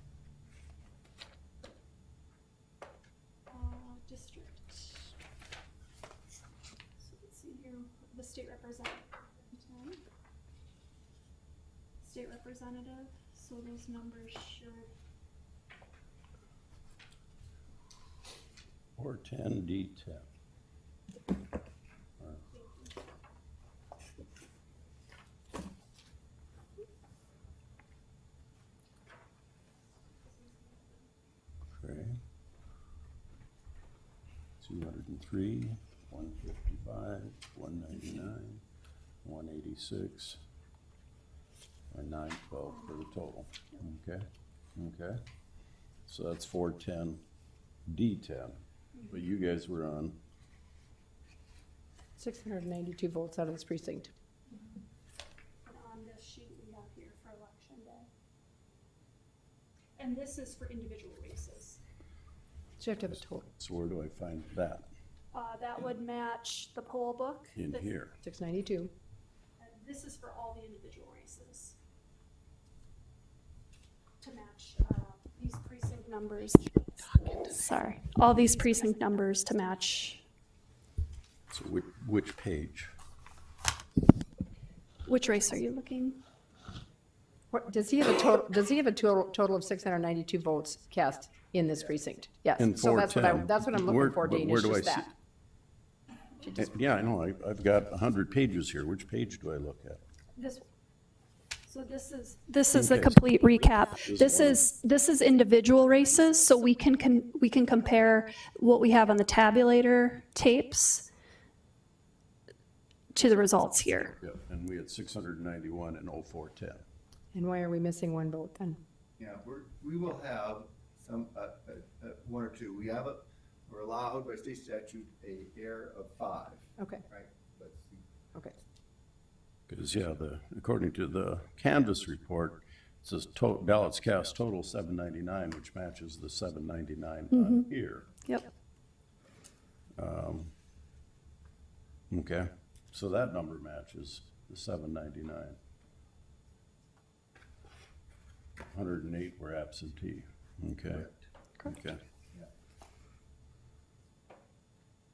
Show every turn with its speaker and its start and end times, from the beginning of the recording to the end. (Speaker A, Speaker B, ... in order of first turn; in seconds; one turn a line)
Speaker A: 3.5-5.1
Speaker A: 7.0-10.0
Speaker A: 12.0-14.9
Speaker B: 19.0-20.2
Speaker A: 22.5-23.0
Speaker A: 30.2-31.0
Speaker B: 31.8-32.2
Speaker B: 34.6-38.6
Speaker B: 39.2-40.4
Speaker B: 41.9-45.2
Speaker B: 46.1-47.2
Speaker B: 47.9-50.1
Speaker C: 52.2-54.1
Speaker A: 55.6-58.1
Speaker A: 60.0-61.8
Speaker C: 62.8-63.5
Speaker B: 63.0-64.8
Speaker A: 65.3-67.9
Speaker B: 67.5-68.1
Speaker C: 68.2-68.9
Speaker A: 69.6-71.8
Speaker A: 74.2-80.2
Speaker B: 81.5-82.9
Speaker A: 85.0-86.2
Speaker C: 87.5-95.1
Speaker B: 92.6-95.1
Speaker B: 96.6-100.0
Speaker A: 100.3-100.6
Speaker A: 101.7-111.0
Speaker B: 102.7-103.2
Speaker B: 104.1-104.5
Speaker A: 113.1-114.1
Speaker B: 114.2-116.8
Speaker C: 117.3-118.8
Speaker D: 119.2-128.0
Speaker C: 126.8-127.0
Speaker B: 129.7-138.0
Speaker A: 137.3-137.6
Speaker B: 140.0-140.5
Speaker B: 142.1-145.5
Speaker B: 148.7-151.1
Speaker B: 151.7-152.0